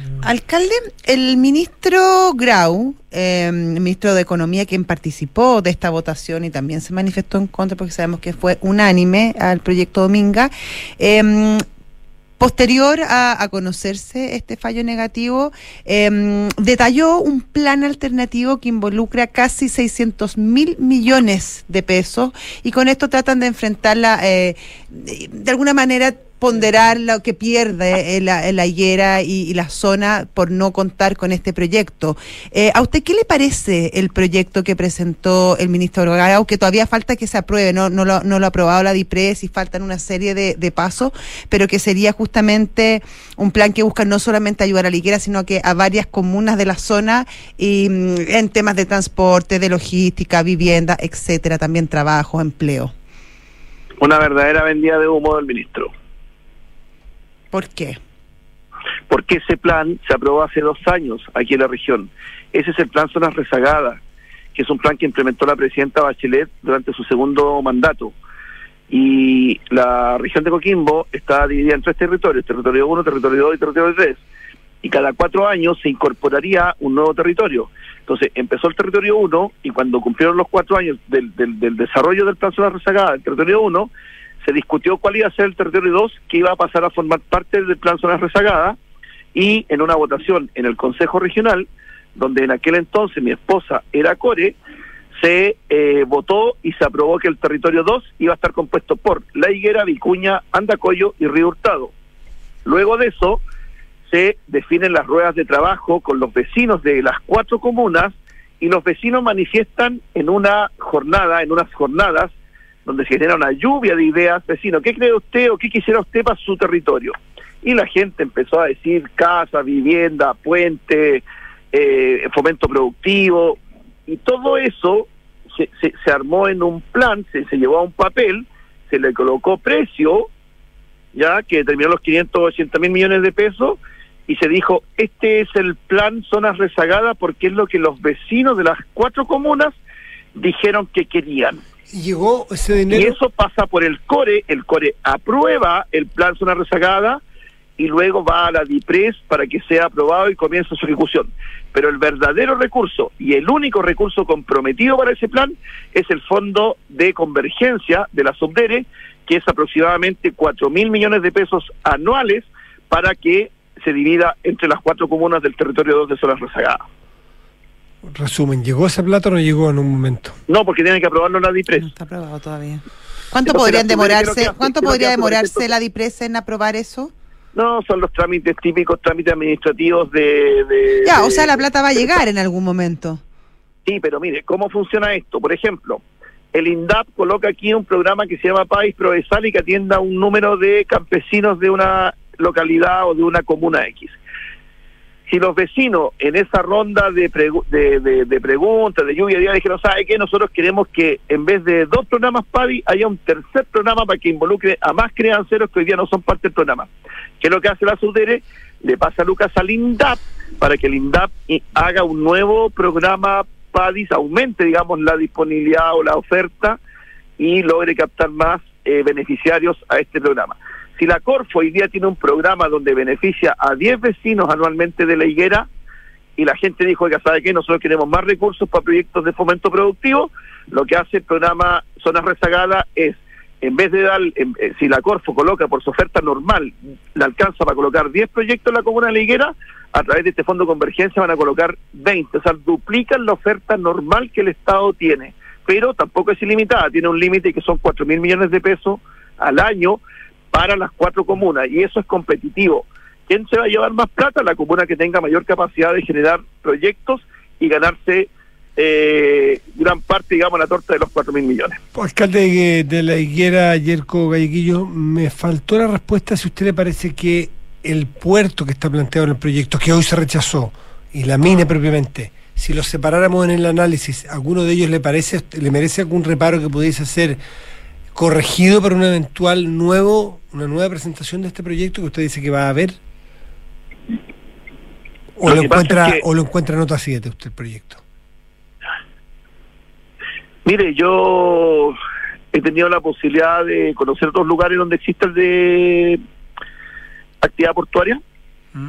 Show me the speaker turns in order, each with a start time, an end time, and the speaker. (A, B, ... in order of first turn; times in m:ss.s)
0:00.2-0:11.6 A
0:12.4-0:52.9 A
0:54.0-0:55.9 B
0:57.5-0:58.0 A
0:59.1-1:04.0 B
1:04.5-1:08.1 B
1:08.9-1:14.2 B
1:14.8-1:23.9 B
1:24.4-1:28.8 B
1:29.3-1:34.6 B
1:35.2-1:41.9 B
1:42.6-1:43.4 B
1:44.1-1:52.3 B
1:52.8-2:10.3 B
2:11.1-2:19.7 B
2:20.4-2:21.6 B
2:21.9-2:23.2 C
2:22.9-2:27.2 B
2:27.8-2:46.8 B
2:48.0-2:50.4 C
2:50.5-2:51.8 B
2:51.8-2:57.1 A
2:53.5-2:55.7 B
2:57.5-3:01.6 B
3:01.0-3:03.2 A
3:03.8-3:06.0 B
3:06.5-3:14.2 B
3:15.3-3:36.8 B
3:37.4-3:45.7 B
3:46.4-4:10.0 B
4:10.5-4:21.8 B
4:21.9-4:37.4 C
4:38.1-4:43.0 C
4:45.4-4:48.0 C
4:45.5-4:46.2 B
4:50.6-4:52.0 B
4:52.5-4:56.2 B
4:57.4-4:58.2 B